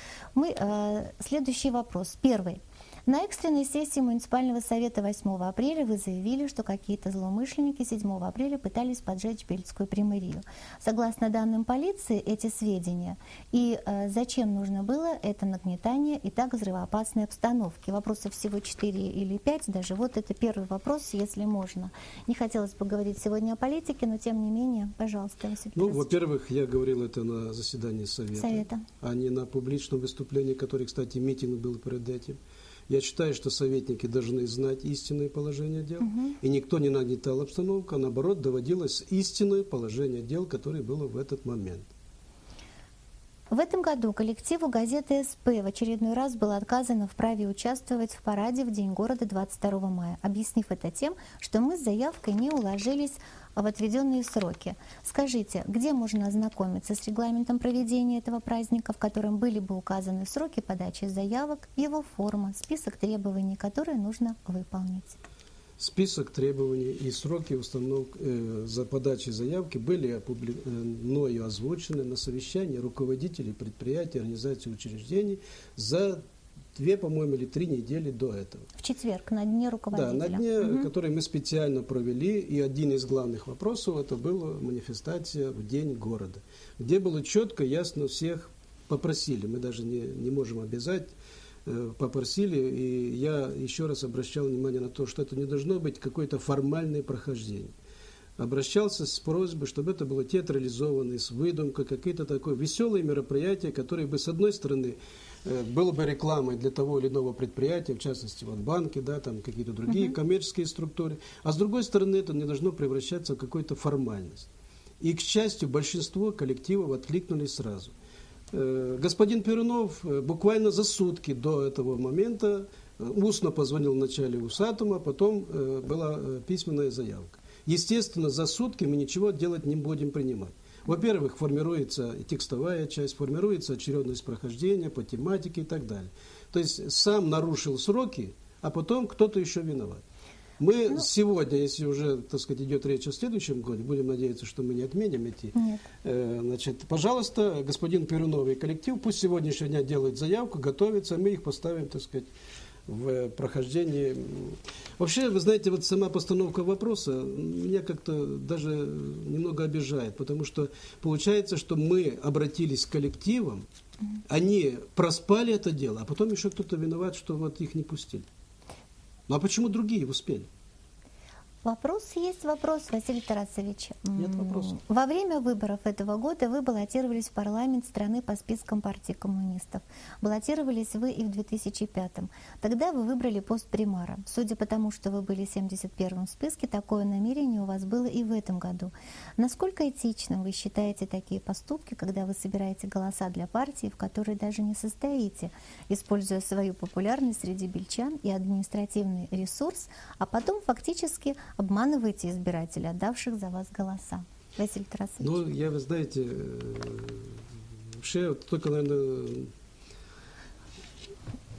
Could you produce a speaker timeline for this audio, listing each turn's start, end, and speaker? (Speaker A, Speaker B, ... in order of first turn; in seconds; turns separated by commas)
Speaker A: 0.3-26.1, Speaker B: 25.7-41.9, Speaker A: 28.4-28.8, Speaker A: 36.0-36.4, Speaker A: 43.5-65.1, Speaker B: 65.8-76.2, Speaker B: 76.7-78.7, Speaker A: 78.8-80.9, Speaker B: 79.9-91.1, Speaker B: 91.7-97.7, Speaker B: 98.4-114.5, Speaker A: 109.9-110.1, Speaker B: 115.0-117.9, Speaker B: 118.5-140.0, Speaker B: 140.6-152.3, Speaker A: 145.5-145.8, Speaker B: 152.9-163.7, Speaker B: 164.3-168.3, Speaker B: 169.3-170.5, Speaker A: 171.6-205.3, Speaker B: 174.2-174.8, Speaker B: 205.2-207.4, Speaker B: 208.0-209.5